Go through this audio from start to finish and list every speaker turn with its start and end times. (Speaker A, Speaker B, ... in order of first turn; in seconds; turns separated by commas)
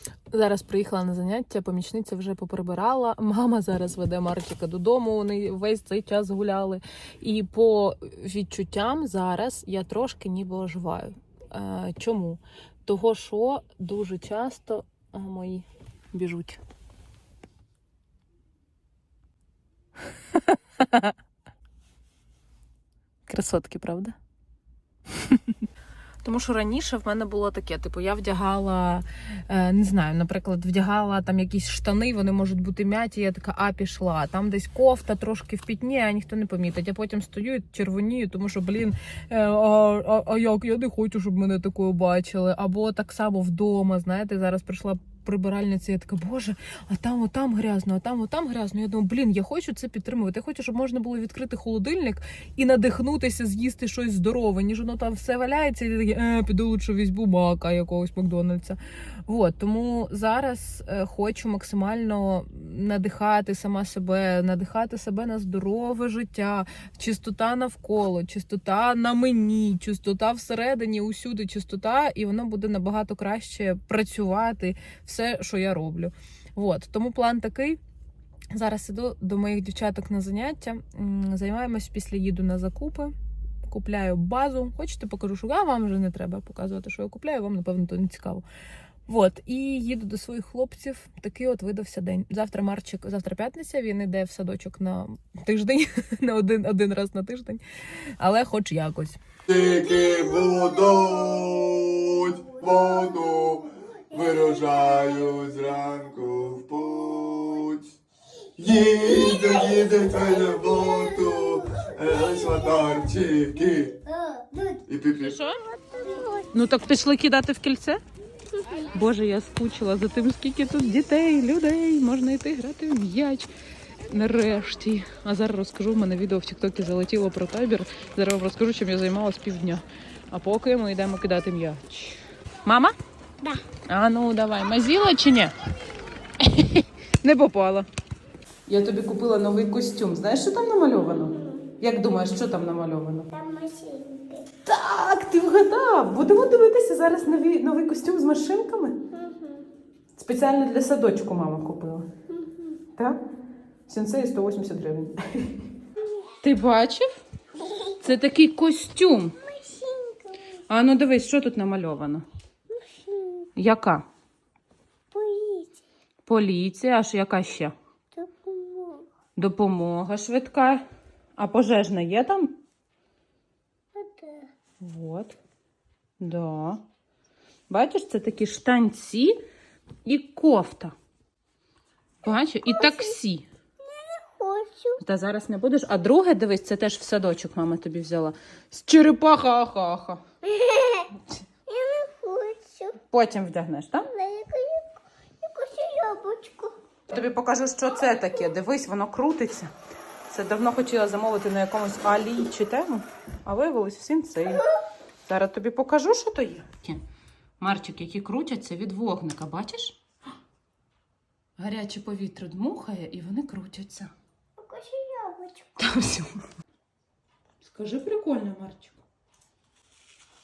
Speaker A: 0.3-16.6, Speaker A: 20.4-21.1, Speaker A: 23.3-24.2, Speaker A: 26.2-77.8, Speaker A: 78.5-83.1, Speaker A: 83.7-88.4, Speaker A: 89.1-97.6, Speaker A: 98.2-99.2, Speaker B: 99.5-107.9, Speaker C: 99.5-101.3, Speaker C: 102.8-103.1, Speaker B: 108.6-114.0, Speaker C: 109.1-113.0, Speaker C: 114.1-116.5, Speaker B: 114.9-115.4, Speaker A: 115.2-115.6, Speaker A: 116.5-118.0, Speaker C: 118.5-118.9, Speaker A: 118.9-123.5, Speaker A: 124.1-132.9, Speaker A: 133.9-135.6, Speaker A: 136.4-137.9, Speaker A: 138.7-143.3, Speaker C: 141.3-141.7, Speaker C: 143.3-144.5, Speaker A: 144.7-149.0, Speaker C: 149.1-149.7, Speaker A: 150.2-152.1, Speaker C: 152.3-152.8, Speaker A: 153.9-155.6, Speaker C: 156.0-156.3, Speaker A: 156.4-157.2, Speaker C: 157.6-158.0, Speaker A: 158.0-159.4, Speaker C: 159.4-160.6, Speaker A: 160.7-162.2, Speaker C: 162.7-163.5, Speaker A: 163.6-164.1, Speaker C: 165.1-165.8, Speaker A: 166.3-167.7, Speaker C: 168.1-169.1, Speaker A: 169.4-170.8, Speaker A: 171.4-172.6, Speaker C: 173.9-174.5, Speaker A: 174.8-175.3, Speaker A: 176.2-176.8, Speaker A: 177.7-179.4, Speaker A: 180.1-180.9, Speaker A: 182.2-183.5, Speaker C: 182.7-183.2, Speaker C: 183.8-185.0, Speaker A: 185.0-190.2, Speaker C: 190.4-191.1, Speaker C: 191.7-193.0, Speaker A: 193.1-194.1, Speaker C: 194.1-196.8, Speaker A: 197.1-199.7, Speaker A: 200.3-204.6, Speaker A: 205.3-207.0, Speaker A: 207.6-210.0, Speaker A: 211.6-214.1, Speaker C: 214.6-215.8, Speaker A: 215.8-216.5, Speaker A: 217.6-219.0